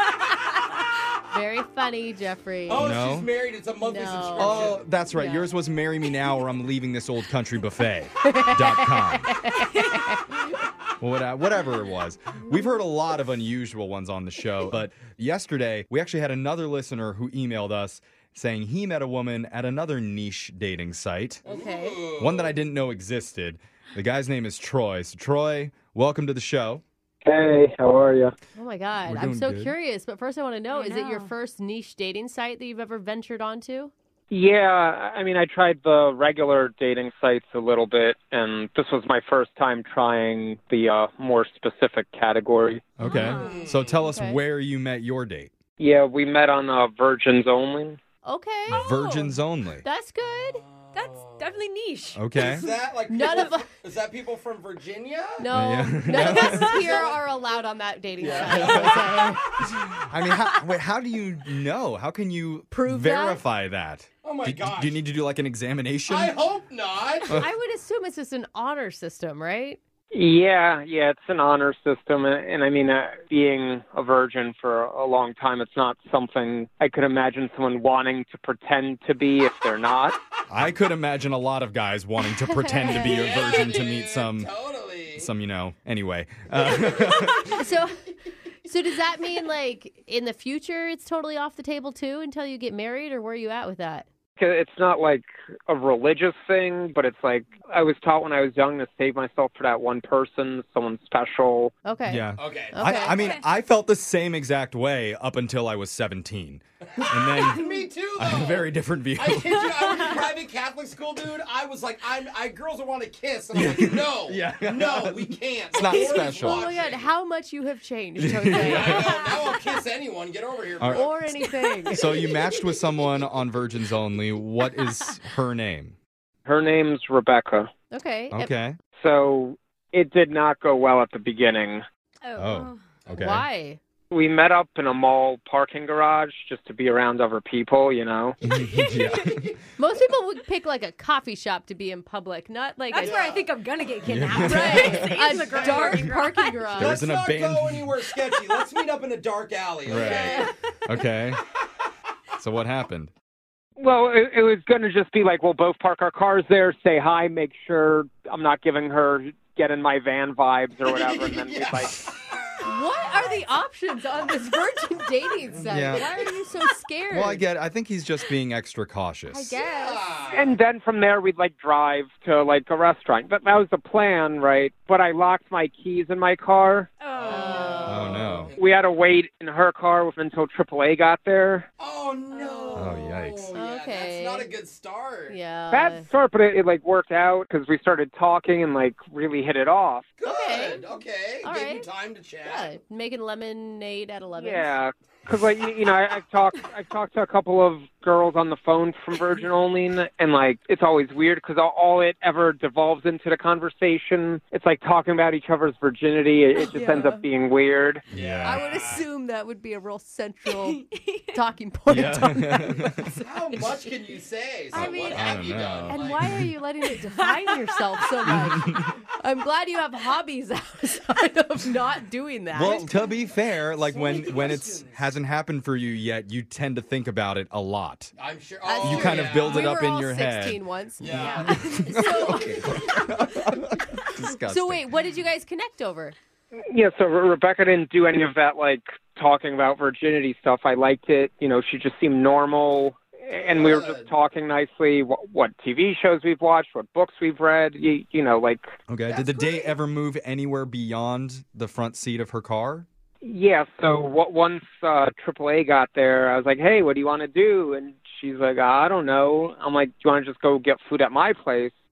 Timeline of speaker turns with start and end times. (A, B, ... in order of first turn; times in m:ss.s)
0:01.3-0:02.8 A
0:02.7-0:04.9 B
0:02.7-0:03.3 C
0:03.8-0:05.5 A
0:04.4-0:09.3 C
0:08.2-0:10.2 A
0:09.8-0:10.0 D
0:11.0-0:21.4 C
0:21.4-0:22.6 B
0:21.4-0:22.0 A
0:22.2-0:26.8 C
0:27.2-0:28.3 E
0:28.6-0:33.9 A
0:29.0-0:29.8 C
0:30.7-0:31.3 D
0:34.3-0:42.8 E
0:43.0-0:45.5 C
0:43.0-0:43.5 D
0:43.3-0:44.0 B
0:44.0-0:44.4 A
0:45.8-0:48.0 E
0:48.2-0:50.6 A
0:48.7-0:49.8 C
0:50.2-0:51.6 B
0:50.9-0:52.2 D
0:52.1-0:52.7 C
0:52.3-0:55.5 B
0:53.1-0:53.7 A
0:55.4-0:59.6 A
0:55.5-0:56.7 C
0:56.1-0:56.4 D
0:56.3-0:57.2 B
0:58.2-0:59.5 B
0:58.6-0:59.0 C
1:00.0-1:06.3 C
1:02.7-1:03.4 A
1:04.2-1:05.0 B
1:06.1-1:07.3 B
1:07.3-1:09.8 A
1:10.1-1:20.2 E
1:20.5-1:24.5 C
1:22.3-1:23.6 A
1:22.9-1:25.3 B
1:25.1-1:27.6 C
1:27.4-1:28.1 A
1:28.6-1:34.1 A
1:34.4-1:41.7 E
1:41.8-1:43.2 A
1:42.0-1:49.9 C
1:42.4-1:43.4 B
1:47.4-1:57.1 B
1:53.5-1:56.7 C
1:56.4-1:59.1 A
1:58.2-1:59.2 C
1:58.5-2:01.5 B
2:00.8-2:01.1 C
2:00.9-2:02.1 A
2:01.9-2:06.0 C
2:02.2-2:02.6 D
2:06.4-2:07.7 E
2:07.9-2:08.5 A
2:08.3-2:08.8 C
2:09.0-2:11.8 E
2:12.2-2:12.9 D
2:12.4-2:13.5 C
2:13.2-2:13.8 A
2:14.1-2:18.4 E
2:18.4-2:19.5 C
2:19.8-2:23.2 A
2:22.9-2:26.7 D
2:23.0-2:23.5 B
2:24.0-2:25.3 C
2:24.4-2:27.0 A
2:24.6-2:26.1 B
2:26.8-2:30.5 B
2:26.8-2:28.0 C
2:29.9-2:31.4 C
2:30.0-2:30.4 D
2:32.4-2:33.1 C
2:33.8-2:42.0 E
2:40.8-2:42.7 B
2:42.6-2:47.4 A
2:45.7-2:46.1 C
2:47.1-2:49.5 C
2:49.3-2:50.0 A
2:49.5-2:50.6 B
2:50.3-2:56.9 E
2:57.0-2:58.0 D
2:57.1-2:58.6 B
2:57.3-2:58.2 A
2:57.8-2:58.5 C
2:58.6-3:01.7 E
3:01.8-3:05.4 B
3:02.3-3:02.9 D
3:02.7-3:03.5 C
3:03.6-3:04.5 A
3:05.3-3:06.1 A
3:05.7-3:10.1 E
3:10.2-3:12.7 B
3:10.2-3:10.8 A
3:11.4-3:11.9 A
3:12.4-3:14.7 A
3:14.4-3:28.0 E
3:26.6-3:27.2 A
3:28.1-3:29.1 B
3:28.1-3:28.9 C
3:28.4-3:33.6 A
3:30.6-3:31.4 D
3:31.9-3:33.1 C
3:33.1-3:36.3 B
3:34.7-3:42.8 A
3:34.7-3:36.5 C
3:37.0-3:37.8 D
3:42.5-3:48.1 C
3:43.8-3:45.2 B
3:48.2-3:49.7 B
3:48.6-3:52.9 A
3:48.8-3:50.6 C
3:51.0-3:51.8 B
3:51.4-3:54.9 C
3:54.5-3:56.2 A
3:56.7-4:08.7 E
4:03.4-4:04.1 B
4:08.9-4:12.9 C
4:09.1-4:09.7 B
4:13.2-4:21.7 E